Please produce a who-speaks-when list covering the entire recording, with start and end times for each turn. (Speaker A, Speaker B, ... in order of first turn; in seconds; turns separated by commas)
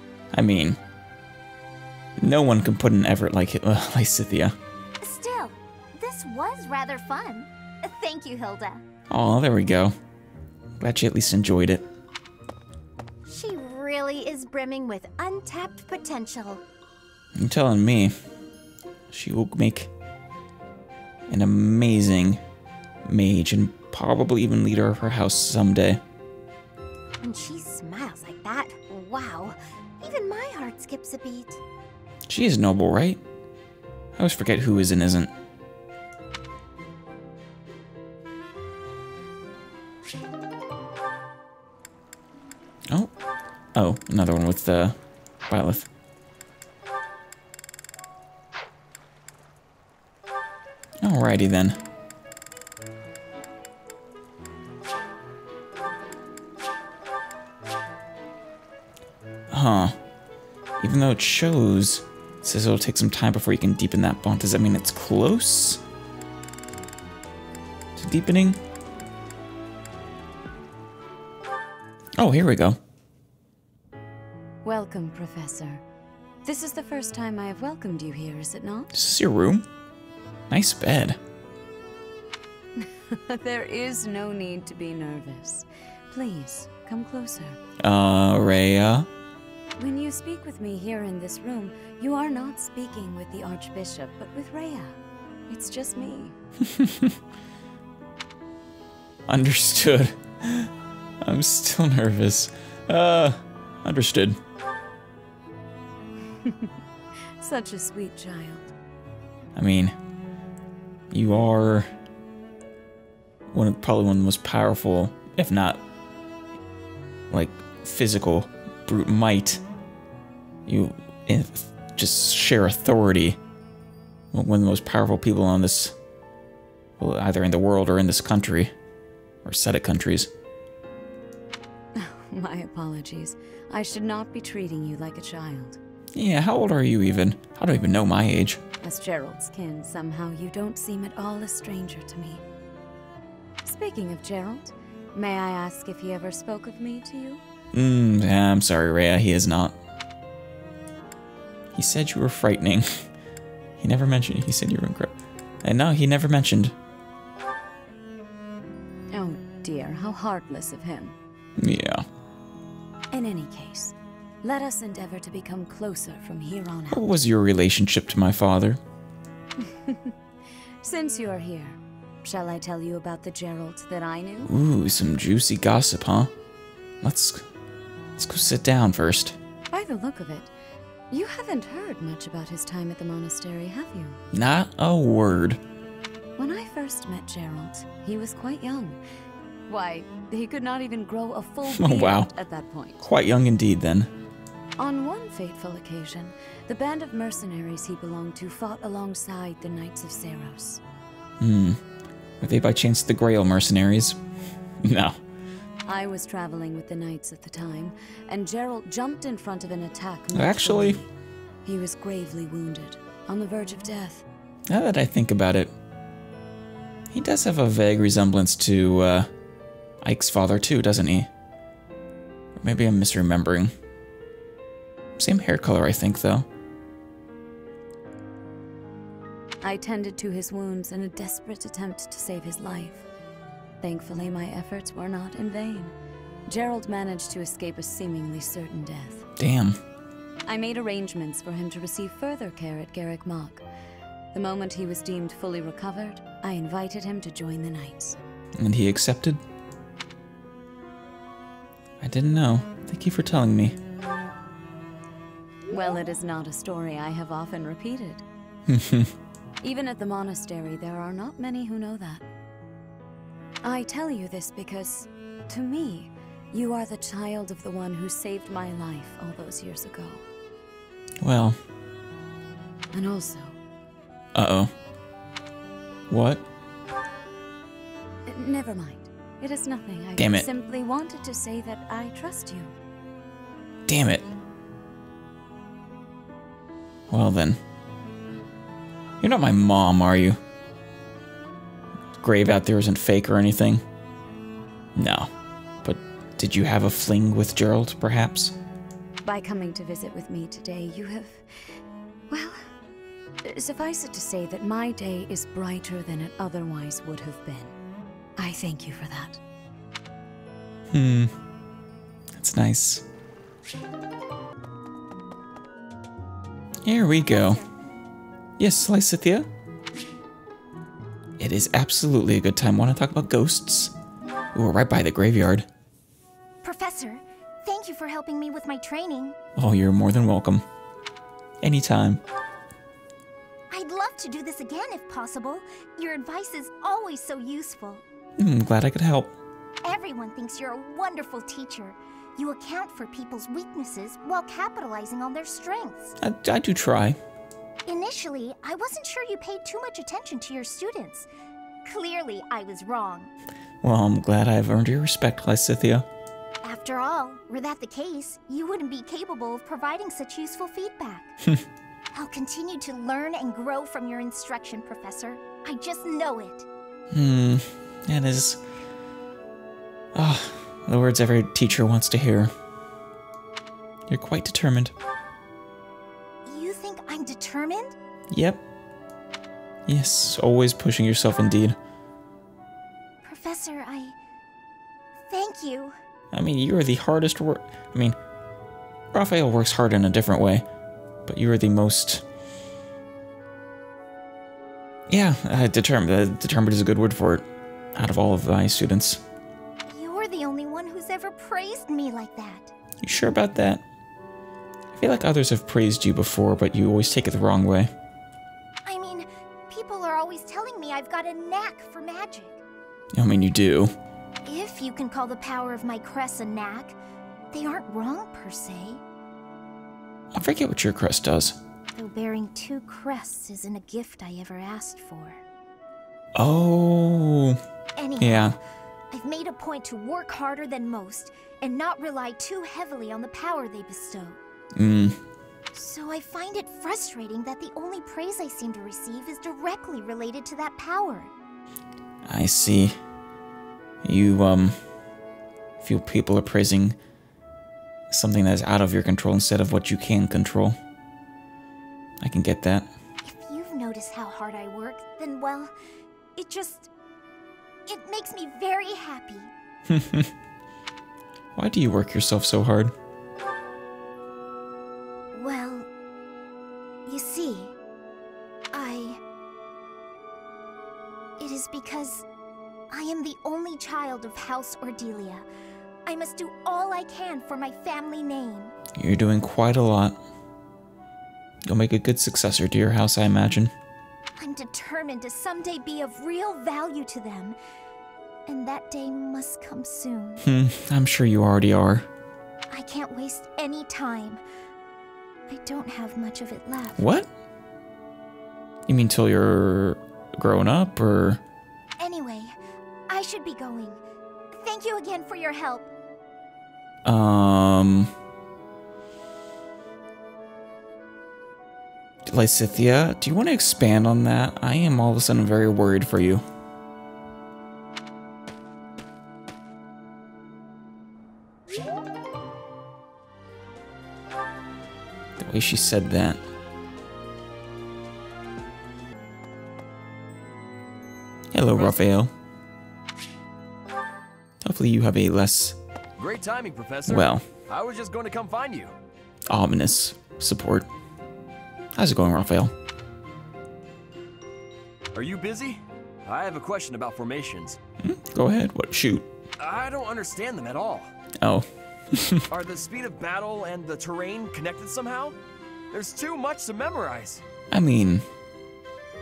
Speaker A: 0.3-0.8, Speaker A: 2.2-4.6, Speaker B: 5.0-8.8, Speaker A: 9.1-9.9, Speaker A: 10.8-11.8, Speaker B: 13.2-16.6, Speaker A: 17.3-18.2, Speaker A: 19.1-19.9, Speaker A: 21.3-22.4, Speaker A: 23.1-26.0, Speaker B: 27.2-31.6, Speaker A: 32.3-33.2, Speaker A: 34.2-35.3, Speaker A: 43.7-45.0, Speaker A: 45.5-45.9, Speaker A: 51.0-51.8, Speaker A: 59.5-60.0, Speaker A: 60.8-65.8, Speaker A: 68.0-68.6, Speaker A: 72.2-72.8, Speaker C: 74.6-75.8, Speaker C: 76.4-78.9, Speaker A: 78.9-79.7, Speaker A: 80.5-81.2, Speaker C: 82.8-87.6, Speaker A: 87.8-89.1, Speaker C: 89.8-96.3, Speaker A: 96.6-97.2, Speaker A: 99.3-100.7, Speaker A: 101.2-104.4, Speaker C: 106.4-106.7, Speaker C: 107.4-108.7, Speaker A: 109.5-110.0, Speaker A: 111.1-111.9, Speaker A: 113.5-115.8, Speaker A: 117.3-119.6, Speaker A: 120.7-123.4, Speaker A: 124.3-125.9, Speaker A: 127.0-128.7, Speaker A: 129.4-130.3, Speaker C: 131.9-135.8, Speaker A: 136.1-138.6, Speaker C: 138.8-142.4, Speaker C: 143.6-147.4, Speaker A: 147.7-149.8, Speaker A: 151.7-153.1, Speaker A: 153.8-156.7, Speaker C: 159.1-161.1, Speaker A: 161.6-162.0, Speaker C: 163.1-167.0, Speaker A: 166.9-168.8, Speaker C: 169.7-170.1, Speaker C: 170.8-174.5, Speaker A: 174.4-176.3, Speaker A: 177.0-177.4, Speaker A: 178.2-179.4, Speaker C: 179.7-180.5, Speaker C: 181.1-184.2, Speaker A: 184.3-185.6, Speaker C: 186.4-189.0, Speaker C: 189.7-193.0, Speaker A: 191.7-192.3, Speaker A: 193.0-194.1, Speaker C: 194.8-200.8, Speaker A: 201.4-201.8, Speaker A: 202.4-204.2, Speaker A: 204.8-205.2, Speaker C: 205.8-211.1, Speaker A: 210.3-211.0, Speaker C: 211.6-214.2, Speaker A: 214.7-215.7, Speaker A: 217.1-219.3, Speaker A: 220.0-221.3, Speaker A: 222.6-223.7, Speaker A: 225.2-226.5, Speaker C: 229.6-233.1, Speaker C: 233.8-235.9, Speaker C: 236.5-239.2, Speaker A: 239.4-239.8, Speaker C: 240.4-243.6, Speaker C: 244.3-248.2, Speaker A: 248.6-249.4, Speaker A: 252.0-253.8, Speaker C: 255.7-258.2, Speaker A: 258.7-259.1, Speaker C: 259.6-262.2, Speaker C: 263.6-270.2, Speaker A: 271.2-271.6, Speaker C: 272.9-273.6, Speaker A: 274.3-274.7, Speaker A: 276.1-276.4, Speaker C: 278.2-282.7, Speaker A: 280.2-280.5, Speaker A: 283.9-284.3, Speaker A: 287.1-287.6, Speaker A: 289.2-290.4, Speaker A: 292.2-293.8, Speaker A: 294.9-295.3, Speaker A: 295.8-298.6, Speaker C: 299.2-301.8, Speaker C: 302.3-302.7, Speaker C: 303.4-307.7, Speaker C: 308.4-309.4, Speaker A: 310.9-311.3, Speaker A: 312.3-313.0, Speaker A: 316.8-317.6, Speaker B: 317.2-317.7, Speaker A: 318.6-319.5, Speaker A: 321.4-323.9, Speaker A: 324.5-325.7, Speaker B: 326.6-329.4, Speaker A: 329.6-330.6, Speaker A: 331.6-332.2, Speaker B: 333.7-338.0, Speaker A: 338.4-339.4, Speaker B: 339.8-346.1, Speaker A: 346.2-347.2, Speaker B: 347.8-351.3, Speaker B: 351.8-353.3, Speaker A: 353.8-356.1, Speaker B: 356.6-361.3, Speaker B: 362.1-366.7, Speaker A: 367.1-368.6, Speaker A: 370.1-372.5, Speaker A: 374.1-374.9, Speaker B: 376.4-377.9, Speaker A: 378.3-378.6, Speaker A: 379.9-381.8, Speaker B: 383.2-384.1, Speaker B: 385.3-385.9, Speaker A: 386.3-388.1, Speaker A: 389.1-390.6, Speaker A: 391.3-392.2, Speaker A: 395.1-399.2, Speaker B: 399.9-402.7, Speaker A: 403.0-403.8, Speaker A: 404.9-407.9, Speaker B: 408.8-412.6, Speaker A: 413.1-413.9, Speaker B: 414.4-417.0, Speaker B: 417.5-419.0, Speaker A: 420.3-421.6, Speaker B: 421.9-425.4, Speaker A: 426.3-427.6, Speaker B: 427.9-428.6, Speaker A: 428.2-428.6, Speaker B: 429.1-434.4, Speaker A: 434.8-435.2, Speaker B: 435.7-441.3, Speaker A: 442.2-443.0, Speaker A: 444.0-444.8, Speaker A: 445.8-447.0, Speaker A: 448.1-450.8, Speaker A: 452.2-452.9, Speaker B: 453.2-455.7, Speaker B: 456.4-456.9, Speaker B: 457.9-459.5, Speaker A: 459.9-460.3, Speaker A: 461.6-462.9, Speaker B: 465.3-465.9, Speaker B: 467.1-467.8, Speaker B: 468.7-469.2, Speaker B: 471.4-472.2, Speaker B: 472.9-475.5, Speaker B: 476.0-478.7, Speaker A: 478.9-480.2, Speaker A: 481.6-483.7, Speaker B: 484.4-487.6, Speaker B: 488.4-490.4, Speaker A: 490.4-492.1, Speaker B: 492.7-494.4, Speaker B: 495.5-497.0, Speaker A: 497.0-497.3, Speaker A: 498.9-501.4, Speaker B: 502.0-502.6, Speaker B: 503.1-504.0, Speaker B: 504.5-505.9, Speaker A: 507.0-508.1, Speaker A: 512.3-516.4, Speaker A: 525.4-526.4, Speaker A: 531.5-532.3, Speaker A: 534.6-535.8, Speaker D: 536.2-538.9, Speaker A: 537.1-537.4, Speaker A: 539.5-540.9, Speaker A: 541.9-542.7, Speaker D: 545.1-547.8, Speaker A: 548.0-549.2, Speaker D: 549.6-551.1, Speaker A: 551.4-552.4, Speaker D: 552.5-555.4, Speaker D: 555.9-557.4, Speaker A: 557.7-558.2